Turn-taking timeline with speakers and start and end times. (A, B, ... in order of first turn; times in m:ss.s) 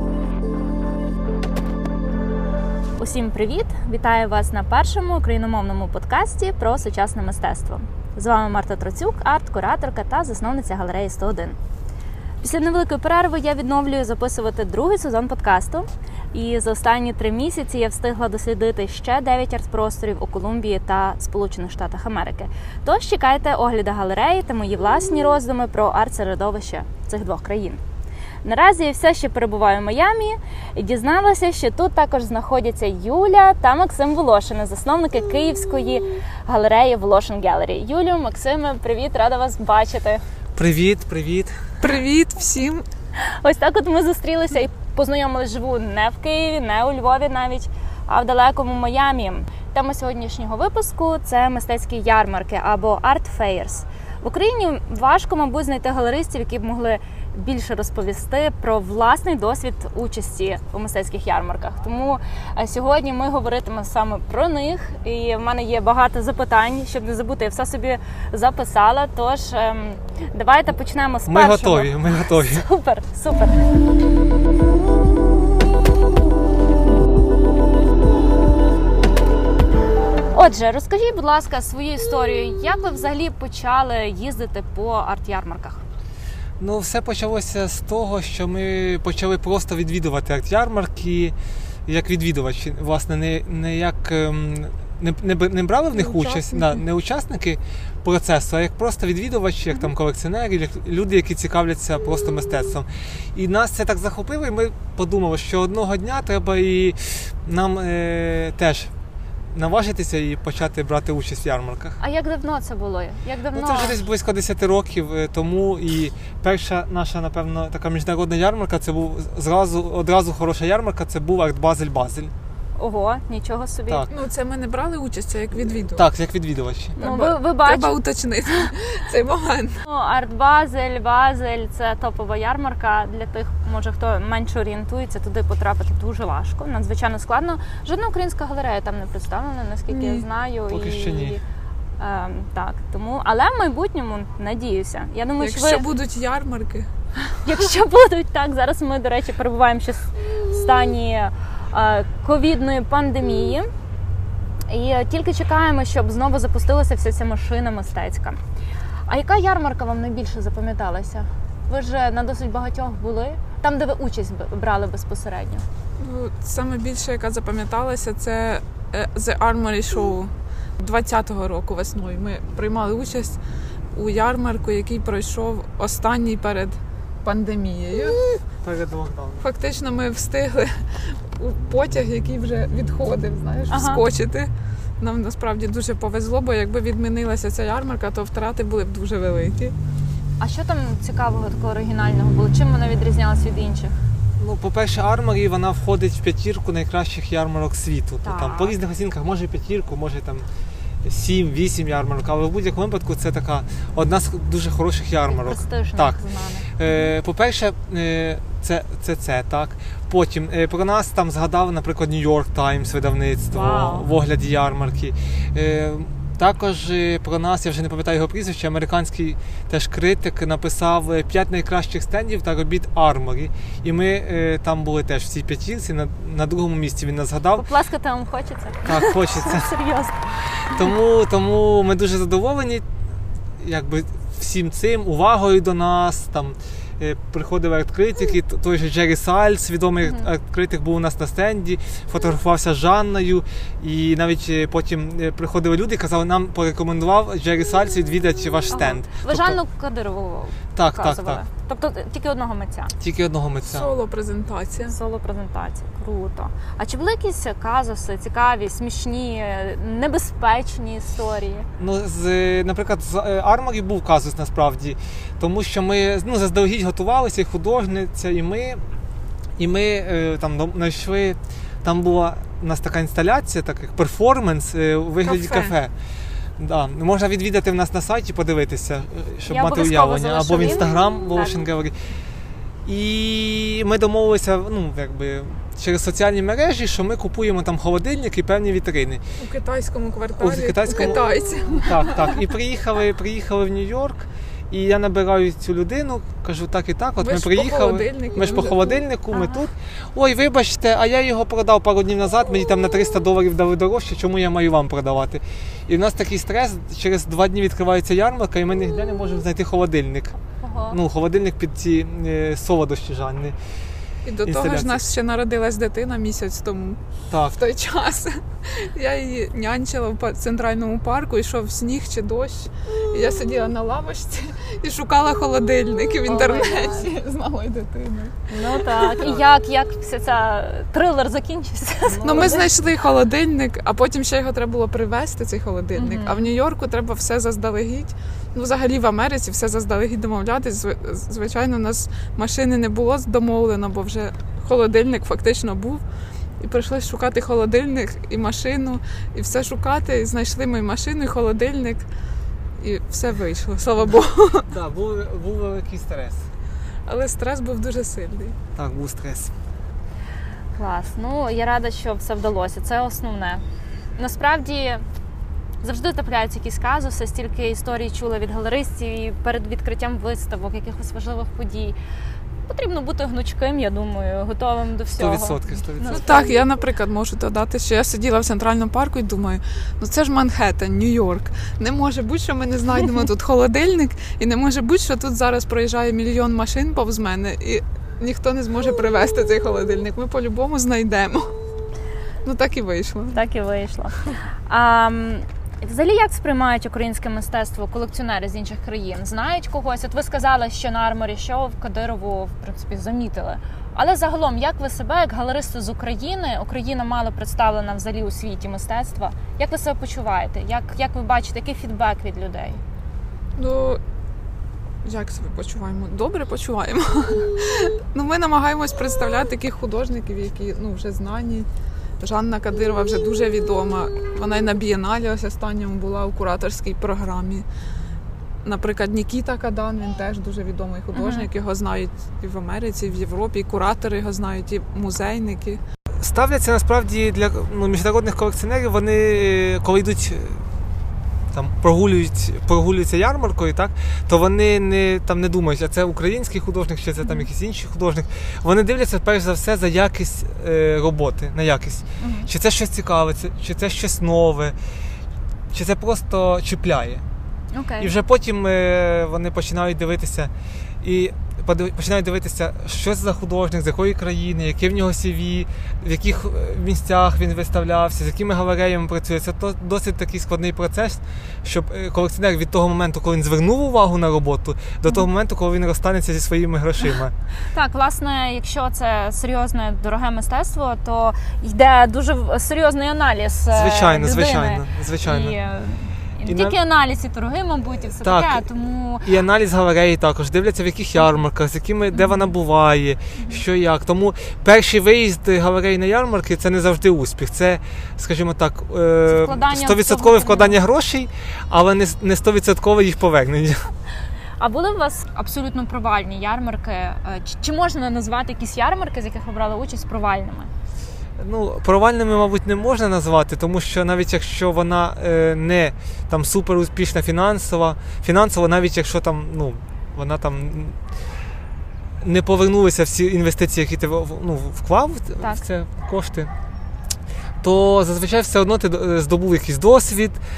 0:03.0-0:11.6 A
0:12.4-0:27.8 A
0:28.4-0:40.2 A
0:40.6-0:41.6 B
0:41.8-0:42.8 C
0:43.2-1:13.6 A
1:11.3-1:12.6 B
1:20.3-1:25.8 A
1:26.6-1:31.3 B
1:31.9-1:48.9 B
1:35.9-1:36.8 C
1:49.5-1:52.0 B
1:52.0-1:54.0 A
1:53.5-2:02.3 B
2:02.8-2:04.1 A
2:04.1-2:06.0 C
2:05.9-2:07.0 B
2:07.0-2:09.8 C
2:07.0-2:08.0 A
2:09.8-2:21.4 A
2:19.9-2:20.2 C
2:20.7-2:21.4 B
2:22.0-2:25.9 A
2:25.4-2:26.9 C
2:27.3-2:33.7 A
2:34.7-2:38.4 A
2:39.1-2:45.6 A
2:46.0-2:53.4 C
2:53.9-2:58.2 C
2:58.6-2:59.4 B
2:59.4-3:09.7 C
3:03.7-3:04.0 A
3:10.4-3:14.0 A
3:14.4-3:20.5 B
3:18.2-3:18.8 A
3:21.0-3:26.2 B
3:25.2-3:27.1 A
3:26.7-3:47.6 B
3:33.5-3:34.1 A
3:47.6-3:50.2 A
3:48.8-3:49.7 B
3:50.6-3:52.8 B
3:53.6-4:09.6 B
4:00.0-4:00.3 A
4:08.7-4:12.9 A
4:10.7-4:11.4 B
4:13.0-4:13.9 B
4:13.6-4:15.0 C
4:14.8-4:21.7 A
4:21.8-4:28.8 B
4:29.6-4:35.9 B
4:35.2-4:35.8 C
4:36.6-4:42.0 B
4:39.4-4:41.6 A
4:42.8-4:49.2 B
4:49.4-4:52.4 C
4:50.4-4:51.2 B
4:51.8-5:10.4 B
4:57.2-4:59.0 C
4:59.3-4:59.6 A
5:10.6-5:11.0 A
5:10.9-5:13.5 B
5:14.2-5:17.0 C
5:14.4-5:15.0 B
5:17.3-5:17.6 B
5:17.5-5:28.4 C
5:26.2-5:27.1 A
5:28.5-5:32.7 A
5:32.0-5:32.6 B
5:32.2-5:46.0 C
5:35.9-5:36.5 A
5:46.6-5:52.0 C
5:52.8-5:54.7 C
5:54.7-5:56.5 B
5:57.1-5:58.6 C
5:58.8-5:59.5 B
6:00.7-6:03.6 A
6:04.2-6:05.0 A
6:05.8-6:12.0 A
6:12.7-6:16.5 A
6:15.1-6:16.3 B
6:16.1-6:31.5 C
6:32.4-6:33.4 C
6:33.3-6:52.8 A
6:53.6-6:54.0 C
6:55.0-7:01.7 C
7:02.2-7:07.6 C
7:08.6-7:15.8 C
7:11.1-7:11.5 A
7:16.2-7:20.6 B
7:21.5-7:34.8 B
7:32.2-7:32.5 A
7:35.7-7:37.2 B
7:37.7-7:38.1 A
7:38.0-7:40.5 B
7:41.0-7:57.3 B
7:57.7-8:09.3 A
8:03.7-8:05.6 B
8:06.4-8:06.8 B
8:08.2-8:08.7 B
8:09.2-8:23.9 B
8:12.1-8:12.5 A
8:13.3-8:13.6 A
8:19.3-8:20.8 A
8:24.6-8:30.7 A
8:31.4-8:41.0 B
8:42.2-8:46.5 B
8:45.4-8:45.6 A
8:47.6-8:50.4 B